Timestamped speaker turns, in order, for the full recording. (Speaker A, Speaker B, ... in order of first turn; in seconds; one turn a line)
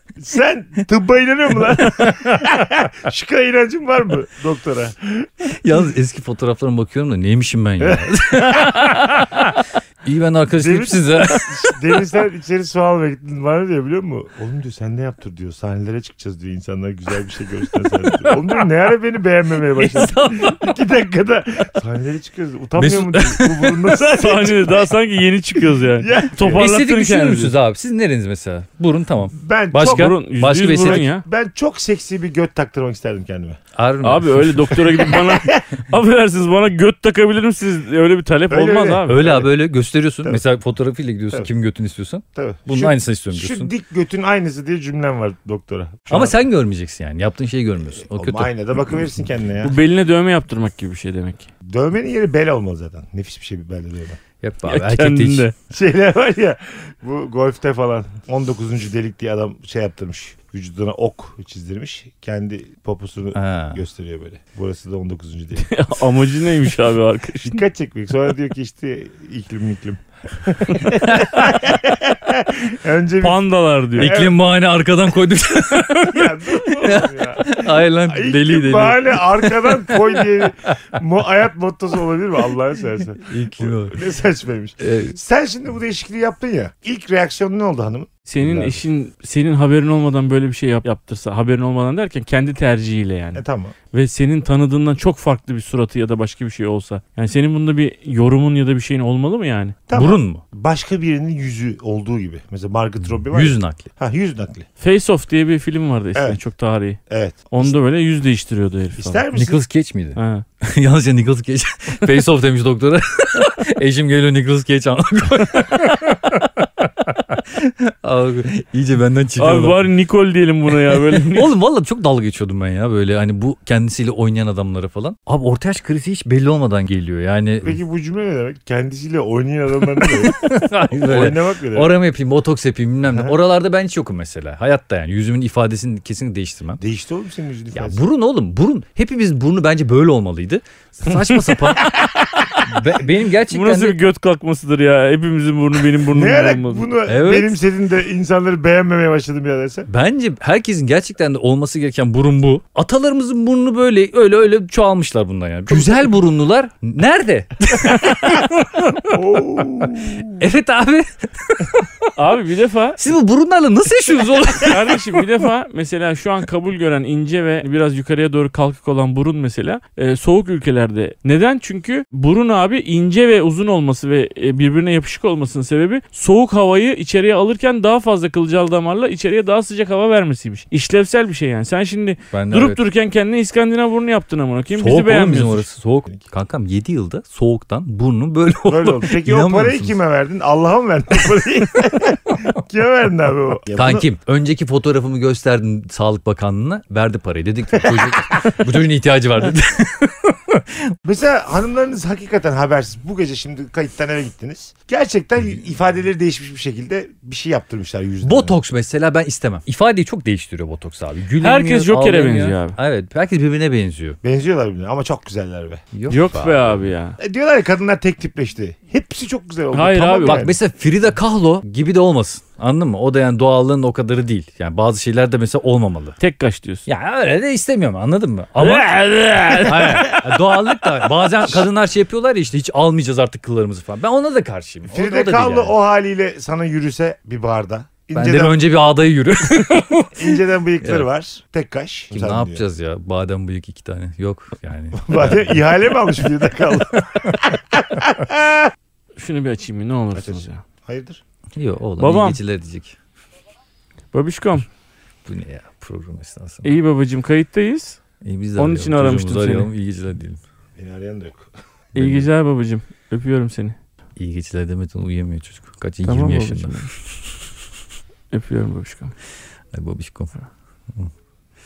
Speaker A: 0.2-5.3
Speaker B: 5.6-11.8
Speaker A: 7.8-8.7
Speaker A: 10.6-24.9
Speaker B: 18.1-18.5
Speaker B: 19.8-20.8
Speaker B: 22.8-23.9
Speaker C: 24.2-27.5
Speaker A: 26.0-26.7
Speaker B: 26.5-31.0
Speaker A: 29.4-33.6
Speaker C: 29.8-31.2
Speaker B: 33.7-35.0
Speaker C: 34.0-39.2
Speaker A: 35.0-35.7
Speaker A: 38.5-39.5
Speaker B: 39.1-43.7
Speaker A: 42.3-46.4
Speaker B: 46.1-48.5
Speaker A: 48.1-49.7
Speaker C: 49.6-51.5
Speaker A: 51.6-54.2
Speaker B: 54.4-55.5
Speaker C: 54.6-55.5
Speaker A: 55.7-65.7
Speaker B: 63.3-63.8
Speaker C: 65.6-67.6
Speaker A: 67.4-73.4
Speaker B: 71.1-71.5
Speaker C: 73.2-74.1
Speaker A: 73.9-74.3
Speaker B: 74.0-80.7
Speaker A: 75.9-88.8
Speaker B: 83.2-84.0
Speaker B: 84.8-85.1
Speaker C: 88.3-99.8
Speaker A: 93.3-93.7
Speaker A: 99.9-104.7
Speaker B: 99.9-100.4
Speaker B: 103.3-103.8
Speaker C: 104.8-109.2
Speaker A: 107.1-107.7
Speaker A: 109.0-109.6
Speaker B: 109.3-119.8
Speaker C: 110.2-110.4
Speaker C: 119.3-121.5
Speaker B: 120.9-127.8
Speaker A: 127.6-130.4
Speaker B: 130.0-136.8
Speaker A: 130.9-131.9
Speaker A: 136.8-138.0
Speaker B: 137.7-141.9
Speaker B: 142.6-144.0
Speaker C: 143.5-146.9
Speaker A: 146.1-149.9
Speaker B: 147.1-147.6
Speaker B: 149.9-162.1
Speaker A: 159.1-160.4
Speaker C: 162.2-163.0
Speaker B: 163.0-165.2
Speaker C: 164.6-185.7
Speaker B: 182.3-182.8
Speaker B: 184.7-189.9
Speaker A: 188.7-194.1
Speaker B: 193.7-200.9
Speaker A: 197.8-198.5
Speaker A: 201.0-208.6
Speaker B: 208.2-214.2
Speaker C: 211.4-212.8
Speaker A: 214.2-215.8
Speaker B: 215.9-216.8
Speaker C: 216.1-217.2
Speaker A: 217.2-220.6
Speaker C: 219.7-220.4
Speaker B: 220.2-226.2
Speaker C: 226.2-226.8
Speaker B: 226.9-235.8
Speaker C: 228.6-230.2
Speaker A: 234.9-238.6
Speaker B: 238.1-241.1
Speaker A: 240.1-242.6
Speaker B: 242.1-245.7
Speaker A: 244.9-248.7
Speaker C: 249.2-250.6
Speaker A: 250.1-251.2
Speaker B: 251.5-252.9
Speaker C: 252.0-252.4
Speaker C: 254.1-254.7
Speaker B: 255.2-256.7
Speaker C: 256.6-258.0
Speaker B: 258.2-260.4
Speaker C: 258.6-259.7
Speaker A: 260.8-261.5
Speaker C: 261.9-263.8
Speaker B: 262.0-262.3
Speaker B: 264.2-266.8
Speaker C: 266.0-266.9
Speaker C: 268.3-269.1
Speaker B: 269.7-270.3